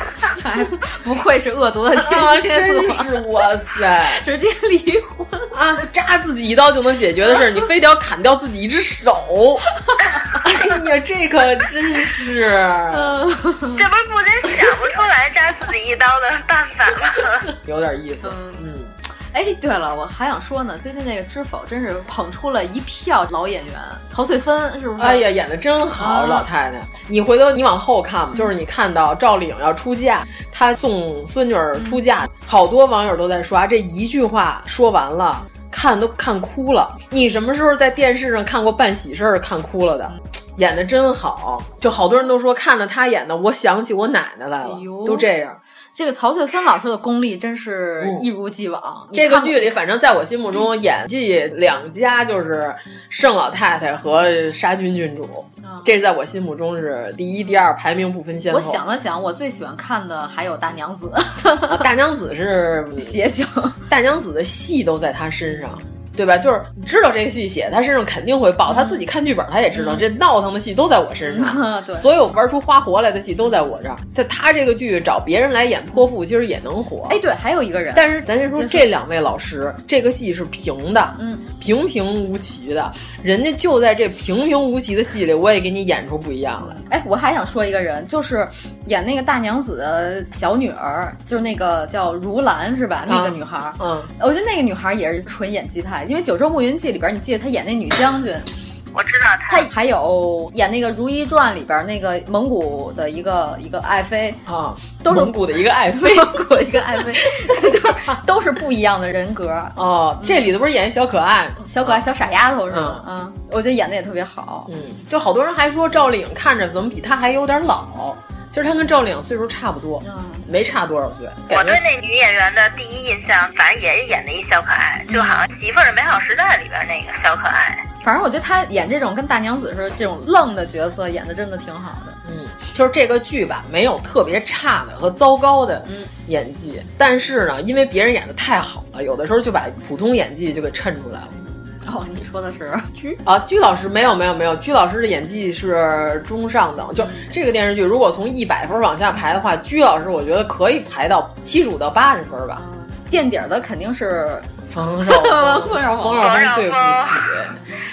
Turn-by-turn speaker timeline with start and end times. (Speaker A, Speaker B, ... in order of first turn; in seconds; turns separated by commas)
Speaker A: 0.3-3.2, Speaker B: 1.9-4.2, Speaker A: 4.1-5.5, Speaker B: 5.5-9.7, Speaker A: 9.9-10.4, Speaker B: 10.4-13.2, Speaker A: 12.9-13.8, Speaker C: 13.7-17.5, Speaker B: 17.5-18.9, Speaker A: 18.2-18.6, Speaker A: 19.3-25.3, Speaker B: 25.0-45.6, Speaker A: 26.0-26.5, Speaker A: 31.8-32.0, Speaker A: 44.6-45.3, Speaker A: 45.9-49.8, Speaker B: 48.0-48.3, Speaker B: 49.1-58.8, Speaker A: 55.6-56.0, Speaker A: 58.5-61.9, Speaker B: 61.7-63.2, Speaker A: 63.0-63.8, Speaker B: 63.9-77.2, Speaker A: 65.5-65.8, Speaker A: 68.7-69.0, Speaker A: 69.7-70.2, Speaker A: 71.2-72.1, Speaker A: 77.1-78.9, Speaker B: 77.9-86.8, Speaker A: 81.2-81.5, Speaker A: 86.6-98.5, Speaker B: 93.1-94.1, Speaker C: 98.9-99.7, Speaker A: 99.5-104.4, Speaker B: 104.5-108.2, Speaker A: 105.0-105.4, Speaker A: 105.9-110.6, Speaker B: 109.8-113.1, Speaker A: 111.6-114.7, Speaker B: 114.7-121.8, Speaker A: 120.0-120.5, Speaker C: 121.5-127.9, Speaker A: 125.1-125.4, Speaker A: 128.0-132.2, Speaker B: 132.2-141.3, Speaker A: 135.9-136.1, Speaker A: 141.8-143.1, Speaker B: 143.1-152.7, Speaker A: 147.0-147.3, Speaker A: 152.6-154.5, Speaker B: 154.7-157.6, Speaker A: 155.0-156.5, Speaker C: 156.2-157.4